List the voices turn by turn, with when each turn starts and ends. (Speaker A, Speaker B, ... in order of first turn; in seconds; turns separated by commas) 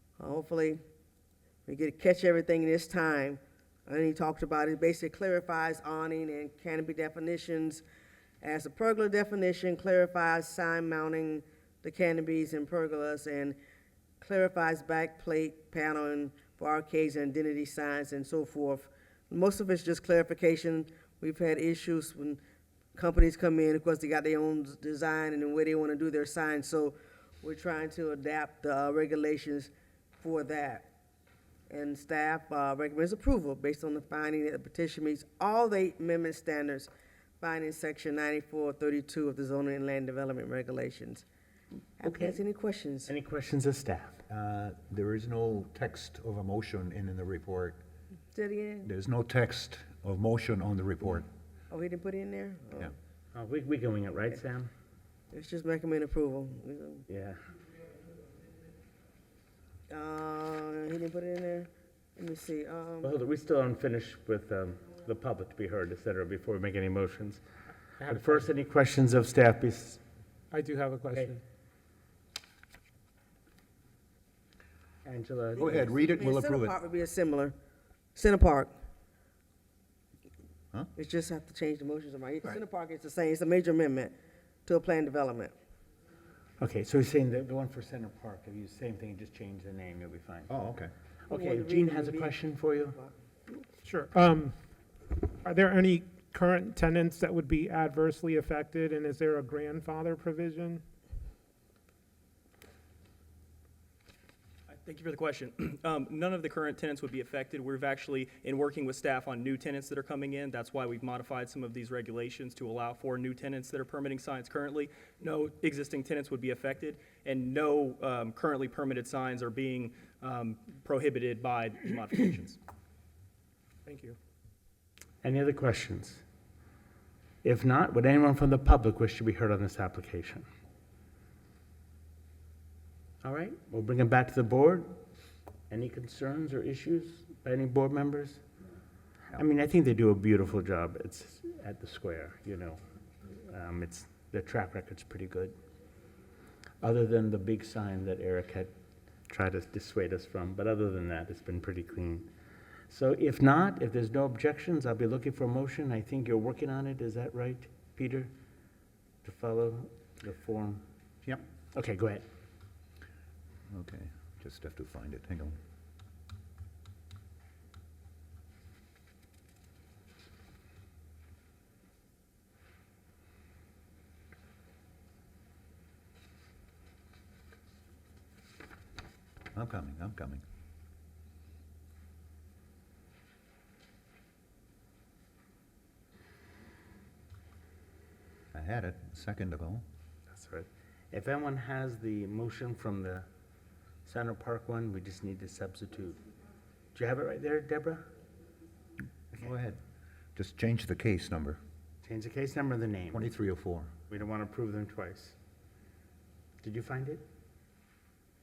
Speaker A: 0.2-0.8, Speaker A: 1.7-7.8, Speaker A: 8.4-13.6, Speaker A: 14.2-22.4, Speaker A: 22.9-30.9, Speaker A: 31.7-41.2, Speaker A: 42.0-43.1, Speaker B: 42.0-42.4, Speaker B: 43.1-44.2, Speaker C: 44.3-47.8, Speaker A: 48.3-48.9, Speaker C: 48.8-51.3, Speaker A: 51.7-52.9, Speaker B: 53.3-54.7, Speaker A: 55.3-57.0, Speaker B: 57.1-57.4, Speaker A: 59.9-63.1, Speaker B: 63.0-67.4, Speaker B: 68.0-70.0, Speaker D: 70.5-71.4, Speaker B: 71.1-71.4, Speaker B: 75.0-75.9, Speaker C: 75.6-76.8, Speaker A: 75.7-77.5, Speaker A: 78.2-78.7, Speaker A: 81.0-84.1, Speaker A: 84.7-85.5, Speaker B: 86.6-90.5, Speaker C: 90.5-90.9, Speaker B: 91.3-93.0, Speaker A: 91.3-93.2, Speaker D: 93.8-94.6, Speaker D: 95.4-100.8, Speaker E: 104.7-122.6, Speaker D: 123.9-124.2, Speaker B: 125.2-126.2, Speaker B: 127.4-130.4, Speaker B: 133.2-134.9, Speaker B: 135.7-138.4, Speaker B: 139.3-145.6, Speaker B: 146.8-148.7, Speaker B: 149.3-152.3, Speaker B: 152.9-158.3, Speaker B: 159.2-162.2, Speaker C: 163.7-165.6, Speaker C: 179.5-180.4, Speaker C: 188.5-189.8, Speaker B: 190.3-193.2, Speaker B: 194.0-196.2, Speaker B: 196.9-198.1, Speaker C: 199.3-199.8, Speaker C: 200.3-201.6, Speaker B: 202.0-203.4, Speaker C: 203.1-203.9, Speaker B: 204.1-205.4, Speaker B: 206.6-207.2